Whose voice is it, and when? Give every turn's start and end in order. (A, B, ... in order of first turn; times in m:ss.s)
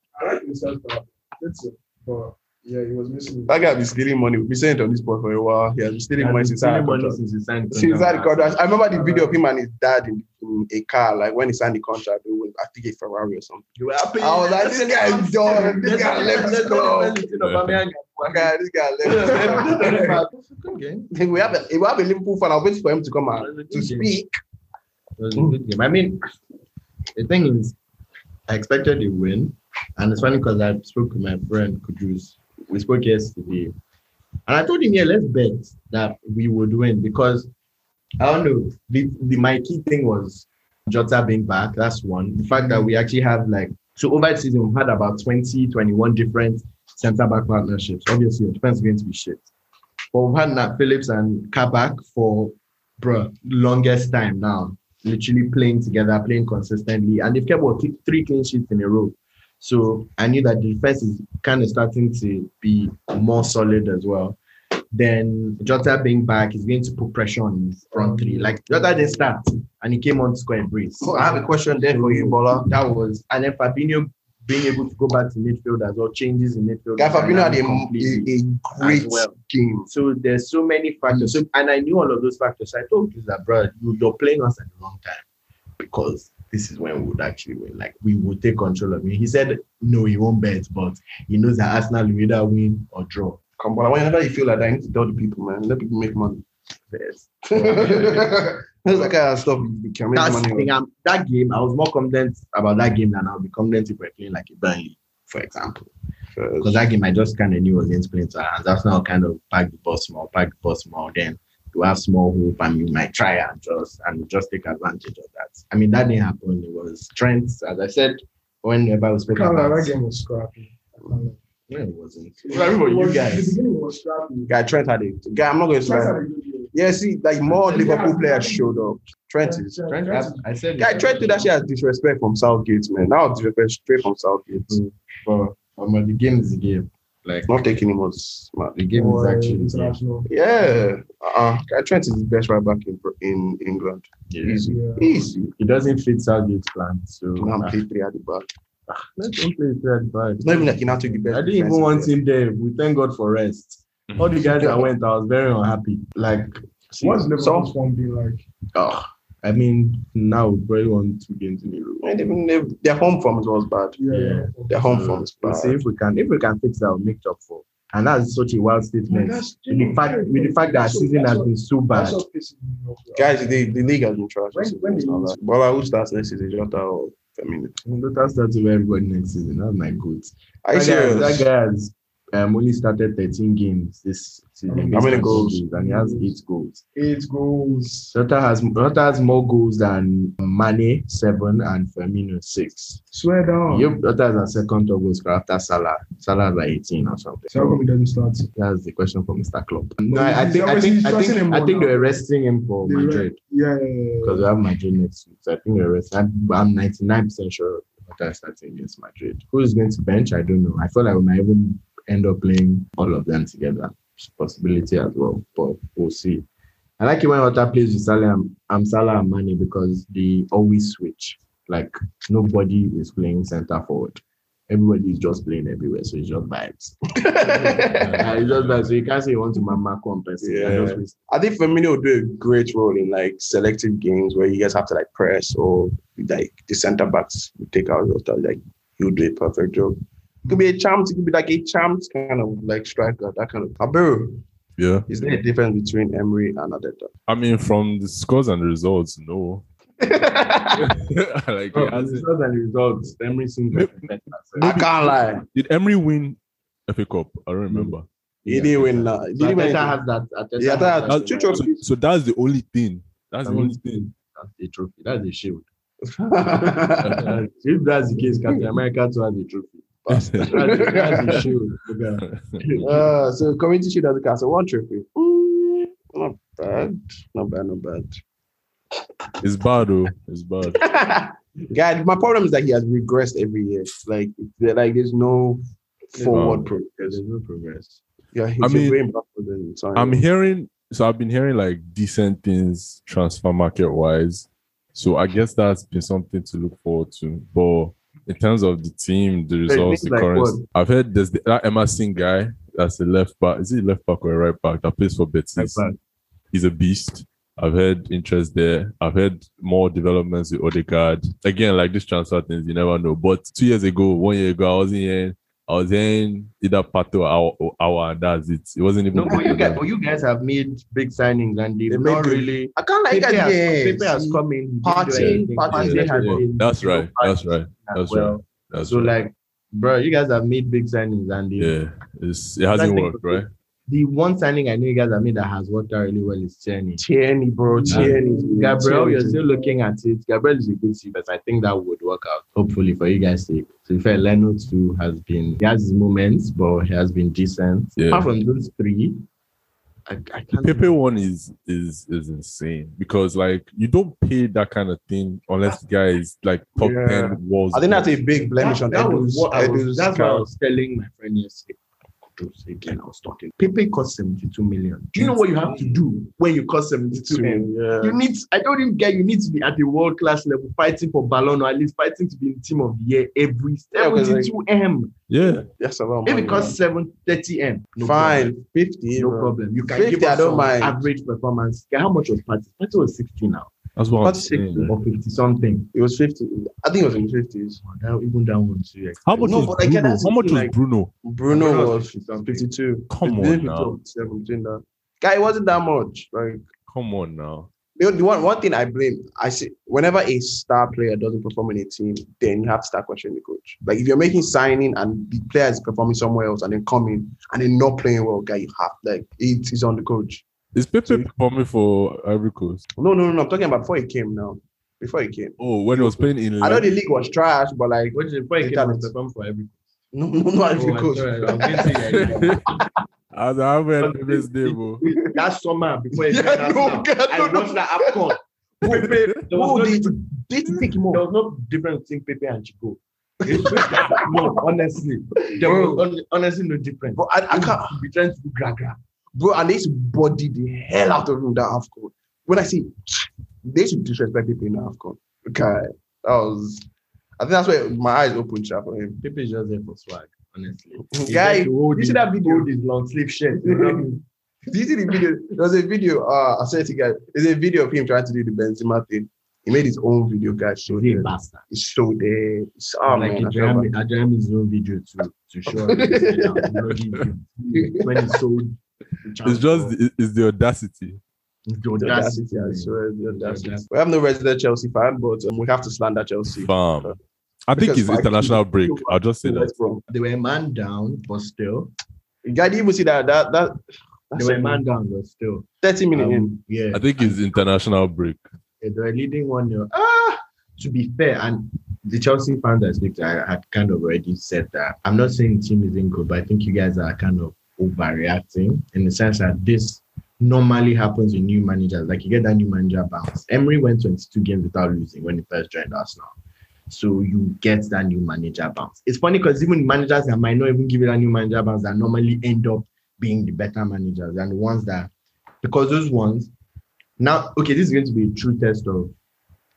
0:00.2-0:03.8 A
0:03.5-0:07.2 B
0:06.2-0:08.6 C
0:07.7-0:13.6 B
0:08.9-0:09.4 A
0:13.8-0:21.6 C
0:14.2-0:17.2 B
0:15.9-0:16.5 A
0:17.4-0:17.8 D
0:18.2-0:20.2 B
0:21.1-0:24.3 B
0:23.4-0:24.2 C
0:25.2-0:26.2 C
0:27.1-0:27.8 C
0:28.5-0:33.7 C
0:34.5-0:37.5 C
0:38.2-0:49.4 C
0:42.5-0:42.9 A
0:50.1-1:04.4 C
1:04.9-1:19.3 C
1:07.9-1:09.3 A
1:11.0-1:12.7 B
1:17.0-1:19.9 B
1:19.9-1:25.2 C
1:21.1-1:21.4 B
1:25.8-1:33.4 C
1:33.6-1:36.5 B
1:36.9-1:38.4 C
1:37.5-1:40.7 B
1:40.1-1:45.9 C
1:46.3-1:46.8 B
1:46.6-1:59.9 C
1:59.3-2:01.4 A
2:01.7-2:03.6 C
2:02.4-2:04.7 A
2:04.5-2:06.2 B
2:05.8-2:06.7 A
2:06.7-2:09.8 B
2:07.5-2:11.3 A
2:09.9-2:11.4 C
2:10.8-2:14.8 B
2:14.7-2:17.6 C
2:17.5-2:18.8 B
2:18.7-2:20.0 C
2:18.9-2:20.3 A
2:20.2-2:25.5 B
2:24.3-2:27.8 C
2:24.7-2:25.1 A
2:27.4-2:28.5 B
2:28.9-2:36.6 C
2:30.4-2:32.1 B
2:36.9-2:37.7 B
2:37.0-2:38.4 A
2:38.7-2:42.1 C
2:42.0-2:44.0 B
2:44.0-2:45.0 A
2:44.1-2:52.2 C
2:44.7-2:45.8 B
2:49.1-2:53.8 A
2:53.1-2:57.8 B
2:54.5-2:55.3 A
2:57.8-3:06.8 C
3:00.6-3:01.5 B
3:04.7-3:06.4 A
3:04.9-3:05.6 B
3:06.9-3:08.1 A
3:08.1-3:13.0 C
3:13.1-3:14.0 A
3:13.7-3:17.8 C
3:17.5-3:18.5 A
3:18.5-3:23.4 C
3:20.1-3:22.2 A
3:22.8-3:24.5 A
3:24.2-3:36.4 C
3:37.0-3:51.1 C
3:47.2-3:48.3 B
3:47.9-3:48.9 D
3:50.4-4:04.4 B
4:04.8-4:05.1 D
4:05.1-4:07.1 B
4:07.3-4:09.6 D
4:10.0-4:11.0 B
4:10.8-4:12.2 D
4:11.7-4:14.8 C
4:13.7-4:19.1 D
4:14.6-4:15.4 B
4:17.7-4:18.0 C
4:18.4-4:20.0 B
4:19.3-4:21.6 C
4:20.6-4:21.8 B
4:21.1-4:24.1 D
4:23.4-4:25.6 C
4:26.0-4:27.3 B
4:27.0-4:27.3 D
4:27.0-4:29.9 C
4:30.0-4:31.5 B
4:30.1-4:31.5 D
4:30.4-4:32.2 C
4:32.2-4:32.8 D
4:32.7-4:38.1 B
4:39.4-4:40.8 D
4:40.7-4:47.2 B
4:46.1-4:48.0 C
4:46.3-4:46.7 D
4:48.3-4:50.2 B
4:48.6-4:49.0 D
4:49.9-5:05.8 D
4:59.7-5:00.6 C
5:05.6-5:05.9 C
5:06.5-5:19.8 D
5:19.1-5:31.8 C
5:21.9-5:26.4 B
5:25.1-5:29.1 D
5:31.6-5:33.5 D
5:32.7-5:37.0 C
5:37.0-5:39.4 B
5:37.6-5:39.8 A
5:37.9-5:49.2 C
5:48.0-5:48.3 D
5:50.1-5:51.0 C
5:50.6-5:58.2 D
5:56.8-6:00.5 B
5:58.5-6:01.8 C
6:02.3-6:15.1 C
6:07.1-6:08.2 B
6:13.9-6:14.5 B
6:15.3-6:15.6 D
6:15.4-6:16.8 B
6:16.2-6:18.6 C
6:18.0-6:21.0 B
6:19.1-6:23.7 C
6:24.0-6:24.9 D
6:24.2-6:24.9 B
6:24.8-6:25.9 C
6:25.9-6:27.8 B
6:27.8-6:29.8 C
6:29.2-6:31.1 D
6:29.4-6:36.6 B
6:31.5-6:32.7 C
6:33.1-6:33.9 D
6:36.9-6:37.7 D
6:38.0-6:50.4 B
6:50.7-6:52.8 D
6:51.0-6:51.3 B
6:53.0-6:59.1 B
6:55.6-6:56.9 D
6:58.1-6:59.8 C
7:00.1-7:02.2 B
7:00.7-7:02.6 C
7:02.1-7:02.6 D
7:03.3-7:05.0 D
7:04.0-7:19.0 C
7:05.0-7:05.3 B
7:06.2-7:08.3 B
7:08.8-7:11.2 B
7:13.4-7:14.6 B
7:15.6-7:16.0 B
7:17.1-7:18.0 B
7:19.3-7:26.8 B
7:27.4-7:29.2 B
7:29.2-7:34.2 C
7:31.1-7:32.7 B
7:33.6-7:43.9 B
7:40.9-7:41.6 C
7:43.0-7:50.0 C
7:45.6-7:46.9 B
7:47.7-7:48.3 B
7:49.4-7:51.2 D
7:51.6-7:53.9 C
7:52.0-7:57.2 B
7:56.5-7:57.2 D
7:57.7-7:59.7 D
7:57.7-8:00.0 B
8:00.1-8:01.9 C
8:02.4-8:03.8 B
8:04.3-8:04.8 B
8:04.4-8:07.6 C
8:05.8-8:06.5 B
8:06.9-8:08.4 D
8:08.8-8:26.3 C
8:26.9-8:35.1 C
8:35.6-8:36.5 C
8:37.2-8:39.1 C